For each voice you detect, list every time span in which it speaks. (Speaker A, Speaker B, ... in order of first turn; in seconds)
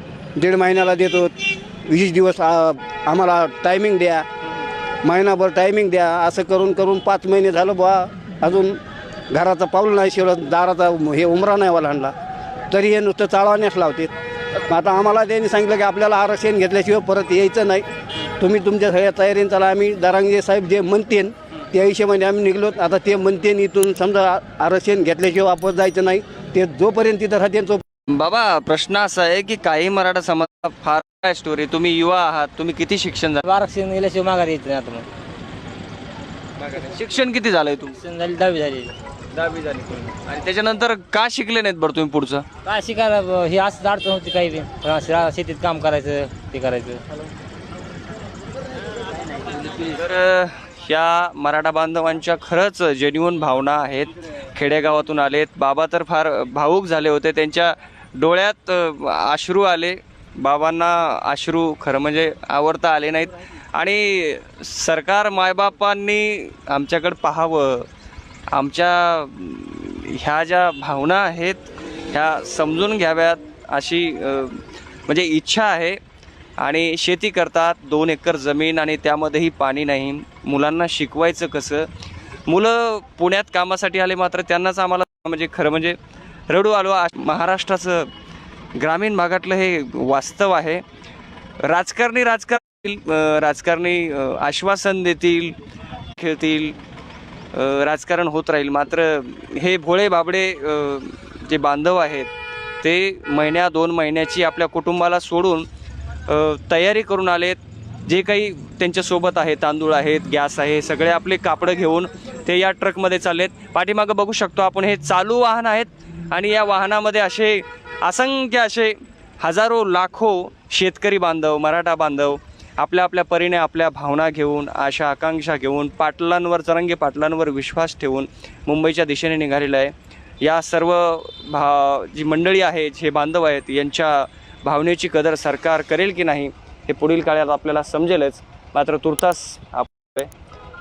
Speaker A: 0.4-4.2, 5.0-8.8, 9.3-12.1, 12.7-14.1, 14.7-17.9, 18.4-27.8
Speaker B: 28.1-33.5, 36.6-38.0, 39.3-42.5, 49.6-67.9, 68.5-76.0, 76.6-81.9, 82.5-86.0, 86.5-88.1, 88.8-90.8, 91.6-95.6, 96.2-96.8, 97.5-102.3, 102.8-105.7, 106.3-140.3
Speaker C: 33.4-35.1, 38.0-39.0, 42.6-47.0